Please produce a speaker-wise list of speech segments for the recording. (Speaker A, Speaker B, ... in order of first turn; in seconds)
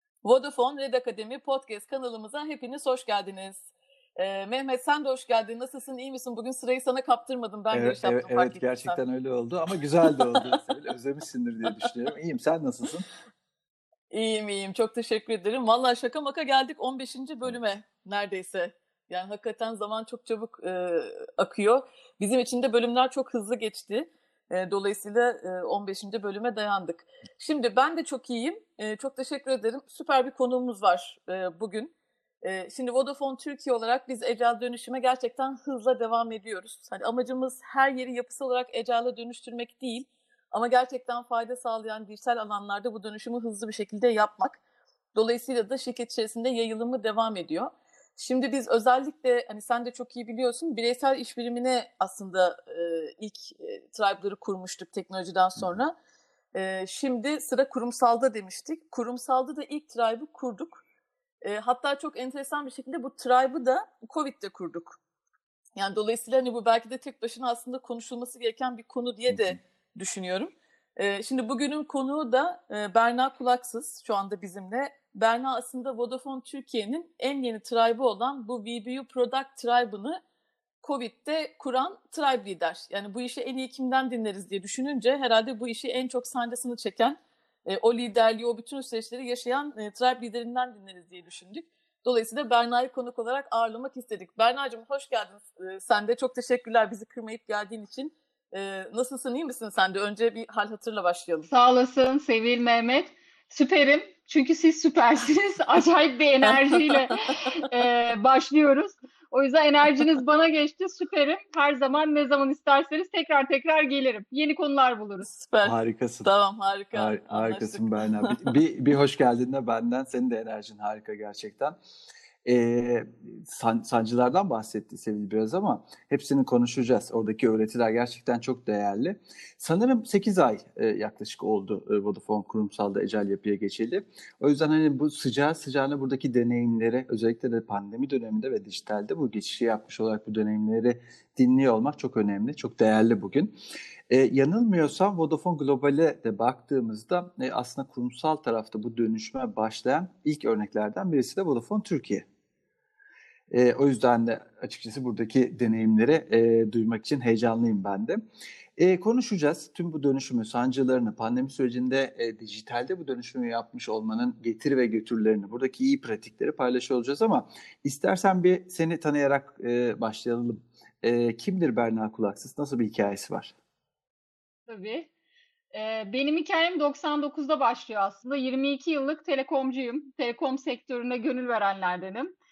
Speaker A: 0.2-3.6, 4.2-9.0, 10.0-10.6, 14.1-31.9, 32.4-44.6, 45.1-55.9, 56.5-60.8, 61.4-65.0, 65.8-80.2, 80.8-101.5, 115.2-118.3
Speaker B: 7.7-13.1, 69.3-69.5, 115.6-116.3, 116.9-121.8, 122.4-143.5, 144.1-152.2, 153.5-158.2, 158.8-173.5
Speaker C: 101.5-115.3, 174.7-175.1, 175.7-182.3